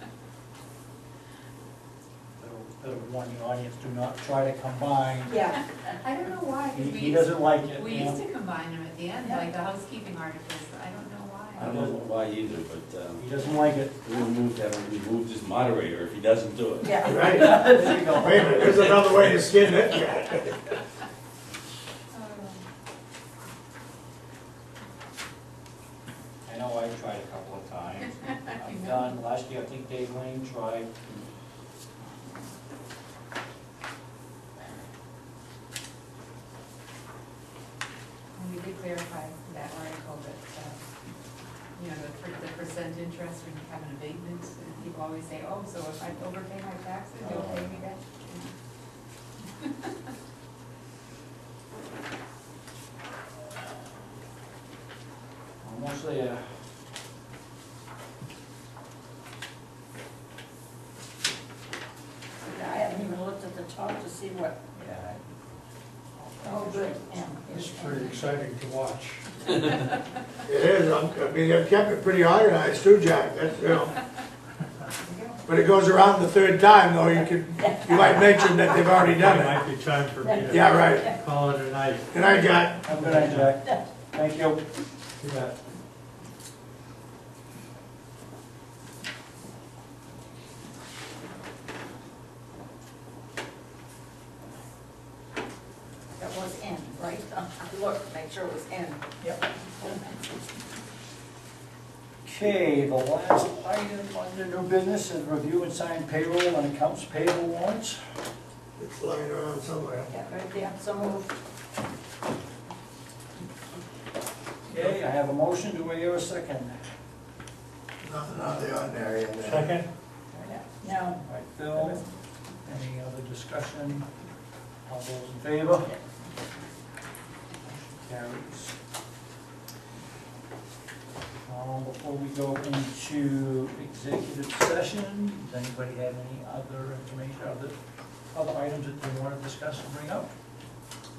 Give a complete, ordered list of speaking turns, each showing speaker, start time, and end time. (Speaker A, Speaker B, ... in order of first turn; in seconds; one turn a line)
Speaker A: 2.4-5.4
Speaker B: 5.3-5.6
Speaker C: 5.9-11.7
Speaker A: 6.7-8.2
Speaker D: 11.6-13.2
Speaker A: 11.6-12.1
Speaker A: 13.2-13.9
Speaker D: 14.0-17.1
Speaker B: 16.8-17.4
Speaker E: 17.1-20.5
Speaker A: 17.3-19.0
Speaker C: 22.1-22.6
Speaker A: 26.4-30.9
Speaker C: 38.4-40.8
Speaker C: 41.8-48.5
Speaker A: 47.2-47.8
Speaker A: 55.6-56.4
Speaker B: 62.4-64.6
Speaker A: 64.7-65.2
Speaker A: 66.2-67.1
Speaker B: 66.4-68.2
Speaker F: 67.8-69.2
Speaker E: 70.5-73.9
Speaker B: 75.0-75.4
Speaker E: 75.5-79.6
Speaker B: 77.6-78.8
Speaker F: 78.9-82.1
Speaker B: 80.2-81.2
Speaker E: 80.5-81.1
Speaker E: 82.1-82.9
Speaker A: 82.8-84.6
Speaker F: 83.0-83.5
Speaker F: 85.2-85.5
Speaker B: 96.2-99.0
Speaker B: 99.8-100.2
Speaker A: 102.2-108.0
Speaker E: 108.8-110.1
Speaker B: 110.1-111.3
Speaker A: 114.7-116.8
Speaker E: 118.0-119.8
Speaker F: 119.4-119.9
Speaker B: 120.4-122.0
Speaker A: 121.2-122.0
Speaker A: 122.6-124.1
Speaker A: 124.9-125.9
Speaker A: 127.6-128.8
Speaker A: 131.5-137.7
Speaker A: 138.3-140.3